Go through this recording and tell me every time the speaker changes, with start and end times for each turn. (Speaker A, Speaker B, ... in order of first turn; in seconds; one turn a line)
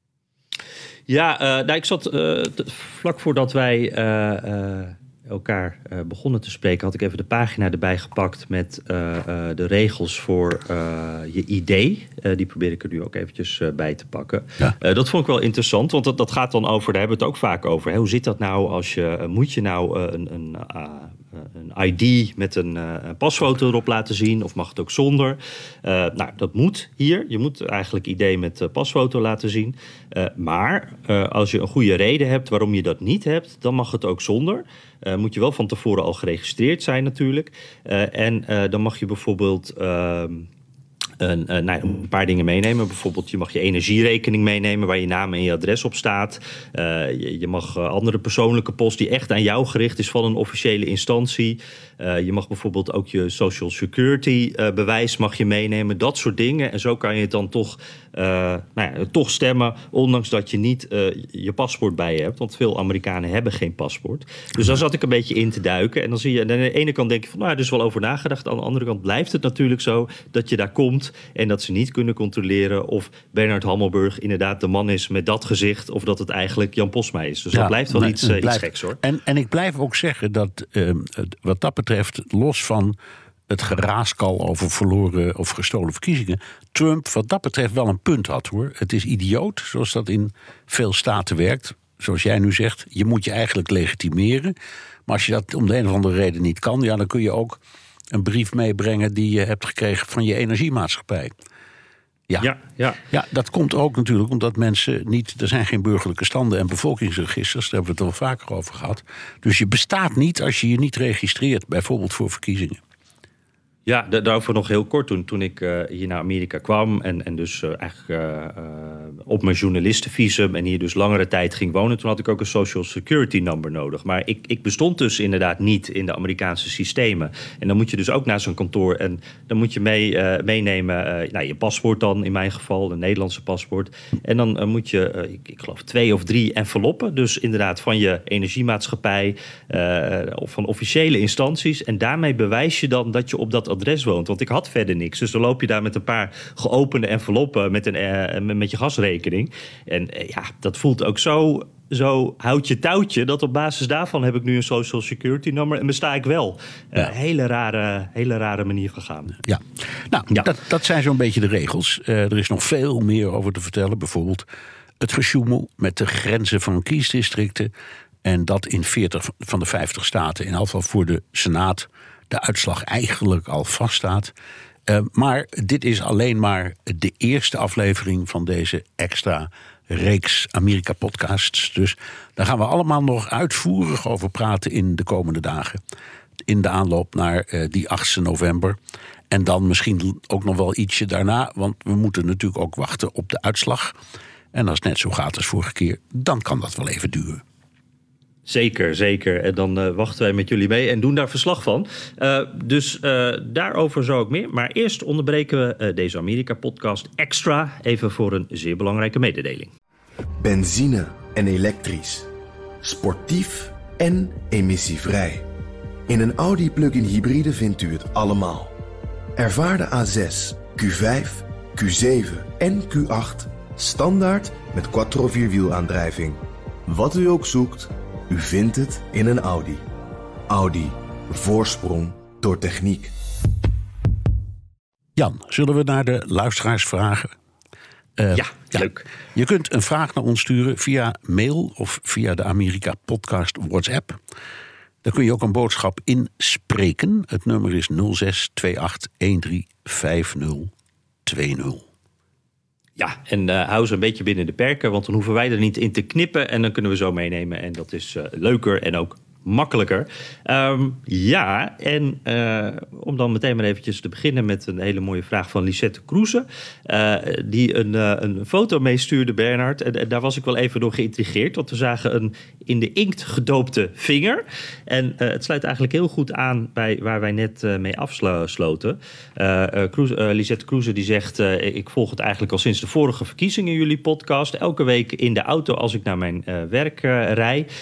Speaker A: 1.1-40.5
Speaker A: 41.2-79.0
Speaker B: 77.5-83.0
Speaker B: 83.5-94.5
Speaker B: 95.0-97.6
Speaker B: 98.1-101.3
Speaker A: 102.4-103.0
Speaker B: 103.1-112.8
Speaker A: 113.8-159.4
Speaker B: 159.4-164.4
Speaker B: 165.0-167.7
Speaker B: 168.2-174.3
Speaker B: 174.9-185.8
Speaker B: 186.4-188.8
Speaker B: 189.3-193.9
Speaker B: 194.5-197.4
Speaker A: 198.4-209.7
Speaker C: 210.4-212.3
Speaker C: 212.8-215.4
Speaker C: 216.1-218.7
Speaker C: 219.4-229.8
Speaker C: 230.5-233.1
Speaker B: 235.2-237.3
Speaker B: 238.2-244.2
Speaker A: 238.3-239.1
Speaker B: 245.0-250.7
Speaker B: 251.2-251.8
Speaker A: 253.0-287.7